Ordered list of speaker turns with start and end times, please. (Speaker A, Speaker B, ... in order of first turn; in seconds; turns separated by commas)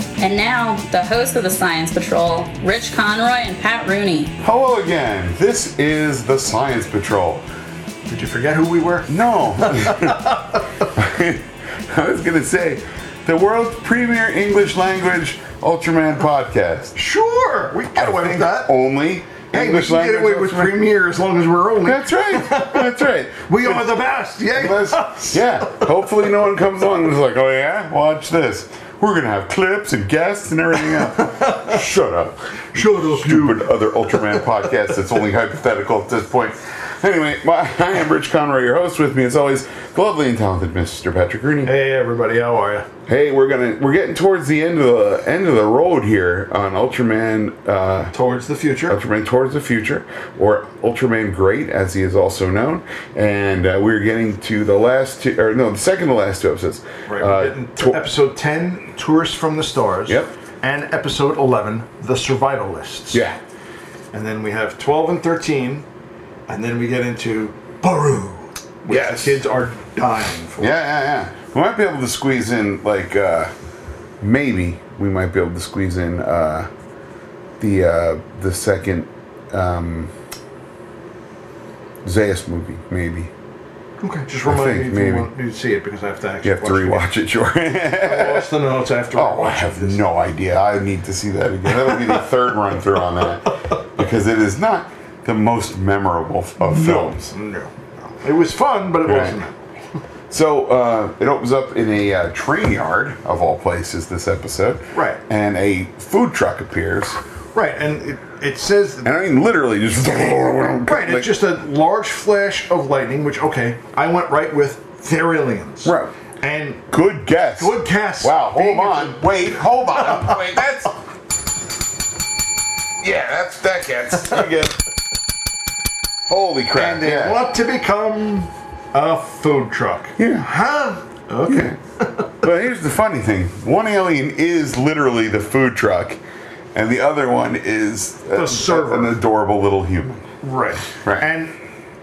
Speaker A: 0.2-4.3, Speaker B: 4.4-7.5, Speaker C: 8.1-10.7, Speaker B: 9.1-10.3, Speaker B: 10.8-17.0, Speaker C: 17.0-18.7, Speaker B: 17.9-20.8, Speaker C: 19.5-22.9, Speaker B: 21.8-24.0, Speaker C: 23.5-25.9, Speaker B: 24.5-41.7, Speaker C: 31.1-31.7, Speaker C: 32.7-34.5, Speaker C: 41.6-42.9, Speaker B: 43.1-48.1, Speaker C: 48.1-49.0, Speaker B: 48.9-58.0, Speaker C: 57.1-63.3, Speaker B: 63.1-63.4, Speaker C: 64.1-65.8, Speaker C: 66.5-70.8, Speaker B: 68.9-69.4, Speaker B: 70.6-73.5, Speaker B: 74.2-76.7, Speaker B: 77.6-80.1, Speaker B: 82.0-83.3, Speaker C: 84.0-87.1, Speaker B: 84.5-85.3, Speaker B: 86.4-88.5, Speaker C: 87.9-90.0, Speaker B: 89.1-97.3, Speaker C: 91.9-92.2, Speaker C: 96.6-99.5, Speaker B: 99.0-99.4, Speaker B: 100.3-107.2, Speaker C: 104.9-105.2, Speaker C: 107.5-109.1, Speaker B: 109.0-111.4, Speaker C: 110.8-116.9, Speaker B: 115.8-116.1, Speaker B: 116.9-120.9, Speaker C: 117.6-120.4, Speaker B: 123.0-124.8, Speaker B: 126.3-127.4, Speaker C: 126.8-132.4, Speaker B: 130.2-130.5, Speaker B: 131.5-131.8, Speaker B: 132.4-136.2, Speaker B: 136.7-140.3, Speaker C: 138.3-139.2, Speaker C: 140.4-141.6